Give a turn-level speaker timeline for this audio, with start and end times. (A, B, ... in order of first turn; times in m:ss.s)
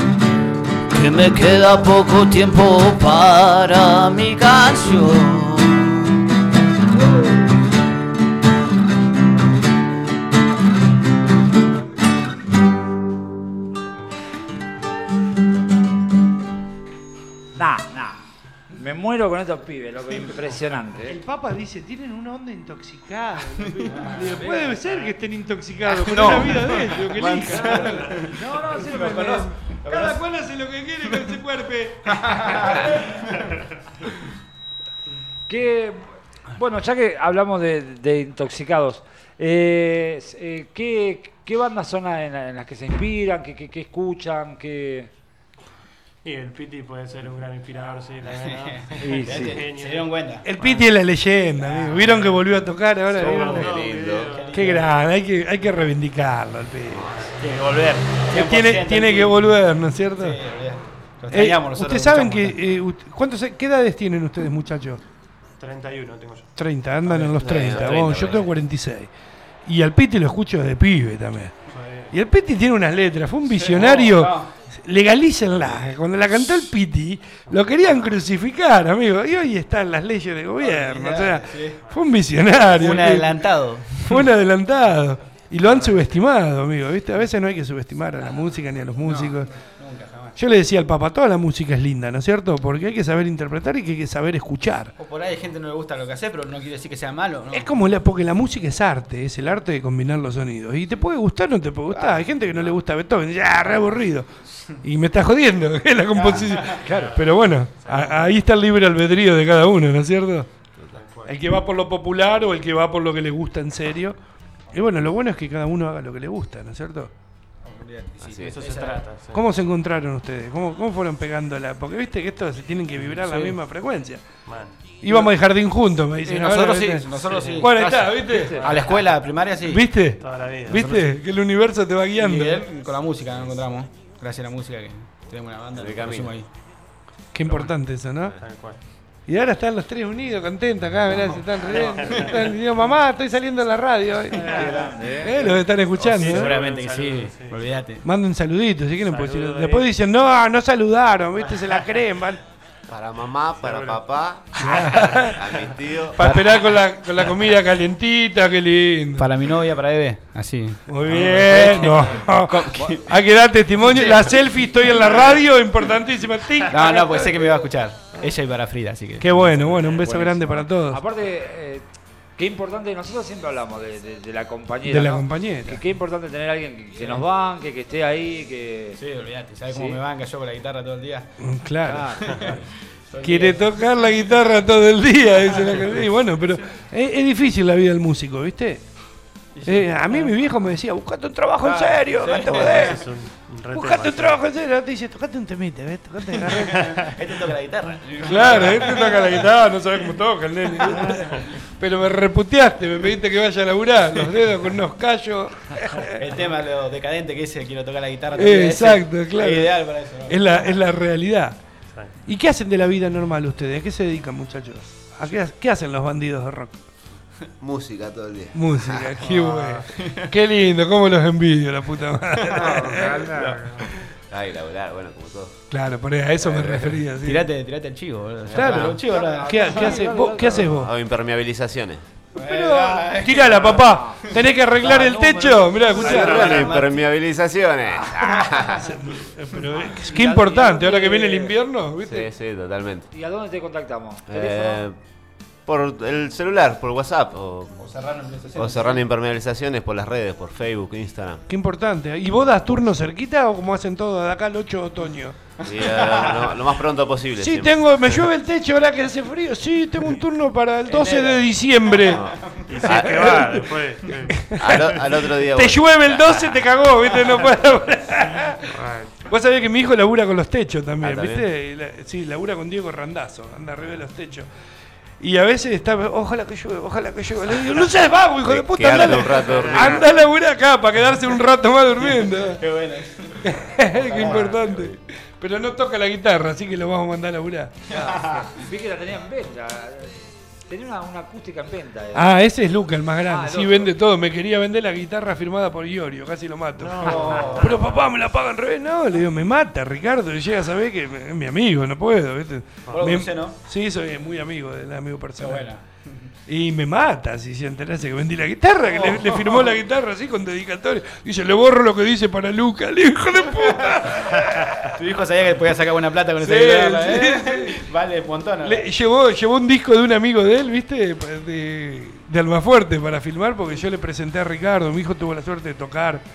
0:00.9-0:06.0 A
0:17.6-0:18.2 B
0:18.7-0:21.2 B
0:21.1-0:28.2 C
0:23.8-0:24.2 D
0:24.4-0:24.8 B
0:25.8-0:30.2 D
0:28.3-0:29.4 B
0:28.9-0:32.9 C
0:32.1-0:33.2 D
0:35.5-0:45.1 B
0:46.2-0:50.3 E
0:48.2-0:50.9 D
0:49.0-0:49.6 B
0:50.4-0:53.8 C
0:51.6-0:52.4 D
0:53.1-0:54.8 E
0:53.2-0:54.4 F
0:54.2-0:54.9 D
0:54.5-0:57.2 C
0:56.9-0:57.4 F
0:57.0-0:58.3 E
0:58.2-0:59.6 D
0:58.3-1:00.4 C
1:00.1-1:02.6 D
1:00.6-1:01.1 E
1:01.3-1:05.0 C
1:05.6-1:06.5 E
1:06.5-1:09.1 C
1:07.0-1:08.2 D
1:07.4-1:08.5 F
1:09.6-1:11.5 C
1:11.7-1:12.1 E
1:12.1-1:29.5 C
1:13.5-1:14.5 D
1:17.4-1:17.7 E
1:20.6-1:21.8 D
1:21.8-1:22.1 E
1:22.6-1:24.2 D
1:25.6-1:26.0 D
1:29.0-1:30.4 D
1:30.4-1:34.9 C
1:35.0-1:37.7 D
1:37.5-1:44.3 C
1:41.9-1:42.7 D
1:44.8-1:50.5 C
1:46.1-1:46.9 D
1:46.8-1:48.4 E
1:50.9-1:51.4 E
1:51.2-1:54.2 C
1:54.7-1:57.1 C
1:57.6-1:59.0 D
1:58.2-1:58.6 F
1:58.4-1:59.5 E
1:59.3-2:04.4 C
2:03.1-2:03.5 D
2:04.4-2:04.8 E
2:05.0-2:08.8 C
2:05.0-2:05.4 D
2:06.2-2:10.1 D
2:07.2-2:09.4 E
2:08.3-2:08.6 B
2:09.6-2:12.6 C
2:10.2-2:11.0 E
2:10.7-2:11.0 D
2:12.2-2:16.5 D
2:15.7-2:16.4 F
2:17.3-2:18.6 C
2:17.5-2:18.8 E
2:19.2-2:24.6 C
2:21.1-2:22.6 E
2:21.1-2:22.4 D
2:24.3-2:25.0 D
2:24.3-2:25.4 E
2:24.4-2:25.5 B
2:25.2-2:26.6 C
2:26.0-2:27.6 E
2:26.0-2:28.0 D
2:28.0-2:32.4 C
2:29.0-2:29.9 E
2:31.4-2:31.9 E
2:32.9-2:36.5 F
2:33.6-2:34.0 E
2:34.6-2:35.5 C
2:34.6-2:35.2 E
2:36.1-2:39.3 C
2:36.2-2:36.6 D
2:39.2-2:43.2 D
2:40.9-2:47.6 C
2:43.8-2:44.3 D
2:46.7-2:49.6 D
2:49.2-2:51.0 C
2:49.8-2:59.0 B
2:54.9-2:55.8 C
2:57.0-2:57.2 D
2:59.0-3:01.4 D
2:59.7-3:00.0 B
3:01.4-3:02.6 C
3:01.8-3:02.4 B
3:02.3-3:03.8 D
3:03.2-3:08.8 C
3:05.5-3:06.0 D
3:09.5-3:10.3 D
3:09.6-3:17.0 C
3:11.6-3:13.1 D
3:12.5-3:14.4 E
3:16.4-3:19.5 D
3:18.2-3:26.2 C
3:20.8-3:21.1 D
3:26.2-3:30.6 D
3:28.3-3:31.6 C
3:32.2-3:36.8 C
3:37.6-3:39.1 F
3:38.5-3:43.5 C
3:39.2-3:40.3 D
3:42.5-3:43.6 D
3:42.6-3:43.9 E
3:44.3-3:45.6 F
3:45.7-3:47.5 C
3:46.4-3:46.9 F
3:46.5-3:50.1 D
3:48.5-3:49.0 F
3:48.5-3:50.9 C
3:49.1-3:50.7 B
3:50.6-3:52.0 F
3:52.4-3:57.0 D
3:52.4-3:56.7 C
3:53.8-3:54.3 B
3:54.8-3:56.7 B
3:56.0-3:58.9 F
3:56.0-3:56.4 E
3:58.4-3:58.7 D
3:58.9-4:02.3 C
4:00.0-4:01.5 B
4:02.0-4:03.1 F
4:03.1-4:04.8 B
4:04.3-4:05.0 F
4:05.6-4:07.9 F
4:07.8-4:09.0 D
4:08.5-4:11.4 F
4:11.5-4:15.4 C
4:15.6-4:16.5 D
4:15.6-4:18.2 F
4:17.4-4:34.5 C
4:20.9-4:22.8 D
4:22.1-4:23.6 F
4:22.7-4:24.6 E
4:24.5-4:26.6 F
4:28.7-4:29.2 E
4:31.0-4:31.4 F
4:35.2-4:42.6 C
4:38.4-4:40.2 F
4:39.4-4:40.1 E
4:42.0-4:44.9 D
4:43.4-4:47.8 C
4:47.9-4:52.3 B
4:48.0-4:48.5 D
4:52.1-5:05.7 C
4:53.3-4:53.9 B
4:56.8-4:58.0 E
4:57.0-4:57.8 D
5:02.9-5:03.1 E
5:02.9-5:03.6 D
5:05.4-5:06.3 D
5:06.5-5:15.0 C
5:08.9-5:09.8 D
5:13.6-5:13.9 D
5:14.9-5:18.9 D
5:16.4-5:17.9 C
5:18.6-5:26.2 C